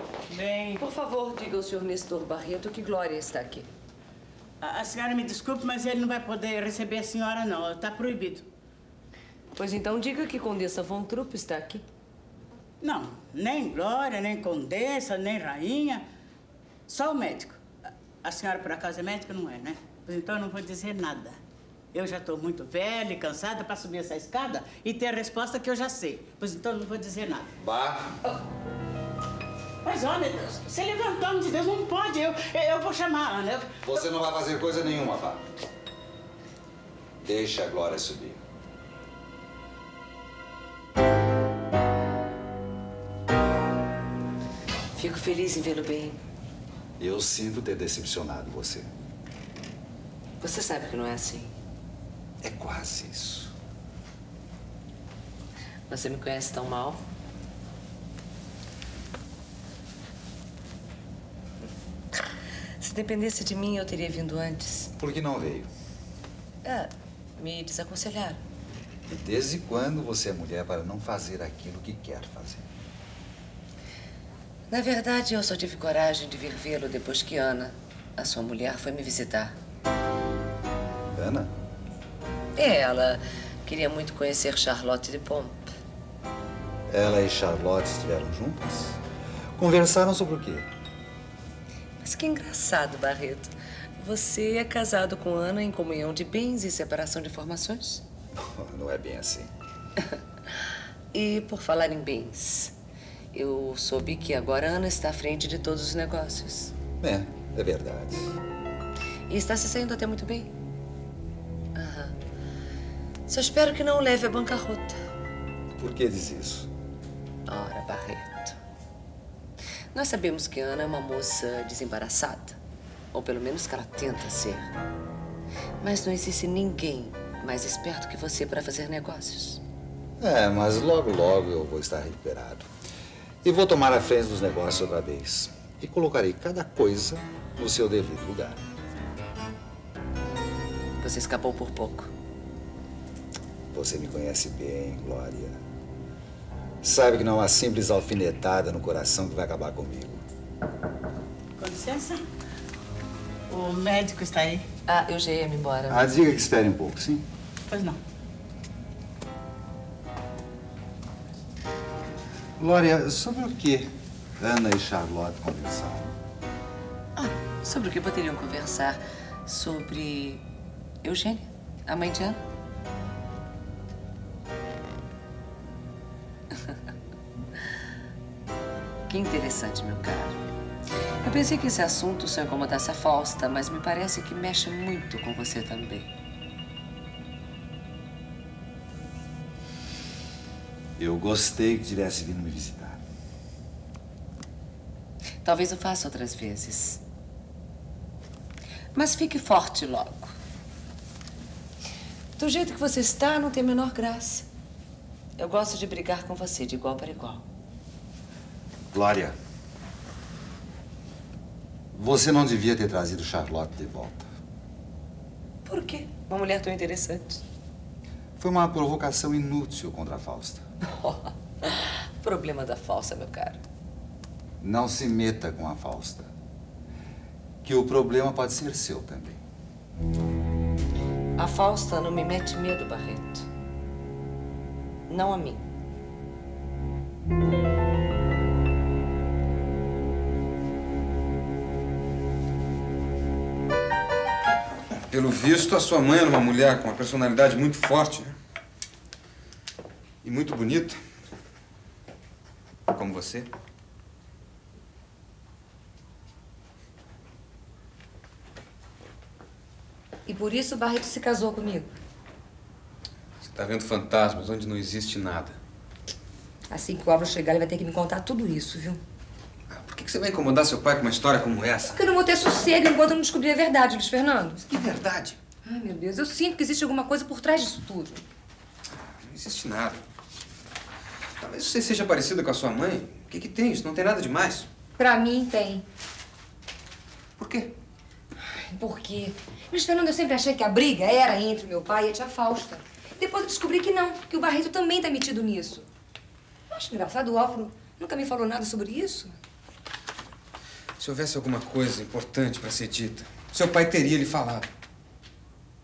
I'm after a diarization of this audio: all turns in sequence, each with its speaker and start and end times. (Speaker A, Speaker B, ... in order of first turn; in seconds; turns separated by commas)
Speaker A: 0.3-0.8, Speaker B: 0.8-3.7, Speaker A: 4.6-8.5, Speaker B: 9.5-11.8, Speaker A: 12.8-16.0, Speaker A: 16.9-17.6, Speaker A: 18.2-21.4, Speaker A: 21.9-27.5, Speaker C: 27.6-28.2, Speaker A: 29.8-33.9, Speaker C: 33.8-35.4, Speaker C: 37.2-38.4, Speaker B: 44.9-46.2, Speaker C: 47.0-48.9, Speaker B: 50.4-51.5, Speaker C: 52.4-53.5, Speaker B: 55.9-57.0, Speaker B: 62.8-64.9, Speaker C: 65.0-65.7, Speaker B: 66.6-68.4, Speaker C: 69.1-72.6, Speaker B: 74.7-79.5, Speaker C: 81.1-81.5, Speaker B: 82.5-85.7, Speaker C: 86.9-89.0, Speaker C: 89.6-90.7, Speaker B: 92.0-98.0, Speaker C: 98.4-99.5, Speaker B: 101.1-102.7, Speaker B: 103.3-106.7, Speaker C: 107.0-108.4, Speaker B: 109.3-110.5, Speaker B: 111.8-112.1, Speaker B: 113.3-115.0, Speaker C: 115.8-116.7, Speaker B: 117.5-118.5, Speaker B: 119.9-122.5, Speaker B: 123.1-124.7, Speaker B: 125.8-129.6, Speaker C: 130.2-132.7, Speaker C: 133.4-138.6, Speaker B: 141.0-142.1, Speaker C: 143.7-145.6, Speaker C: 146.8-150.2, Speaker A: 151.6-152.2, Speaker A: 153.5-154.6, Speaker B: 154.8-156.2, Speaker C: 155.9-157.2, Speaker A: 157.7-158.0, Speaker C: 162.6-163.9, Speaker C: 164.4-166.1, Speaker B: 167.2-170.4, Speaker B: 171.0-172.4, Speaker B: 179.1-180.4, Speaker B: 181.2-186.1, Speaker C: 191.0-193.0, Speaker B: 195.4-197.0, Speaker B: 198.9-200.3, Speaker B: 202.4-204.4, Speaker B: 205.4-207.4, Speaker C: 208.9-209.3, Speaker C: 211.9-214.2, Speaker B: 215.7-217.4, Speaker C: 218.4-220.6, Speaker B: 220.9-223.6, Speaker C: 224.6-226.3, Speaker C: 227.6-229.4, Speaker B: 231.4-233.5, Speaker B: 235.1-235.6, Speaker D: 245.1-248.3, Speaker D: 250.2-251.0, Speaker D: 252.9-253.5, Speaker E: 260.3-261.9, Speaker D: 263.4-265.6, Speaker E: 266.7-269.0, Speaker D: 269.7-272.0, Speaker E: 271.8-274.6, Speaker D: 274.7-275.4, Speaker E: 275.6-278.2, Speaker D: 278.9-280.0, Speaker D: 281.4-284.7, Speaker E: 285.0-285.8, Speaker D: 287.4-287.7, Speaker E: 288.4-295.8, Speaker E: 296.7-299.4, Speaker D: 301.0-304.6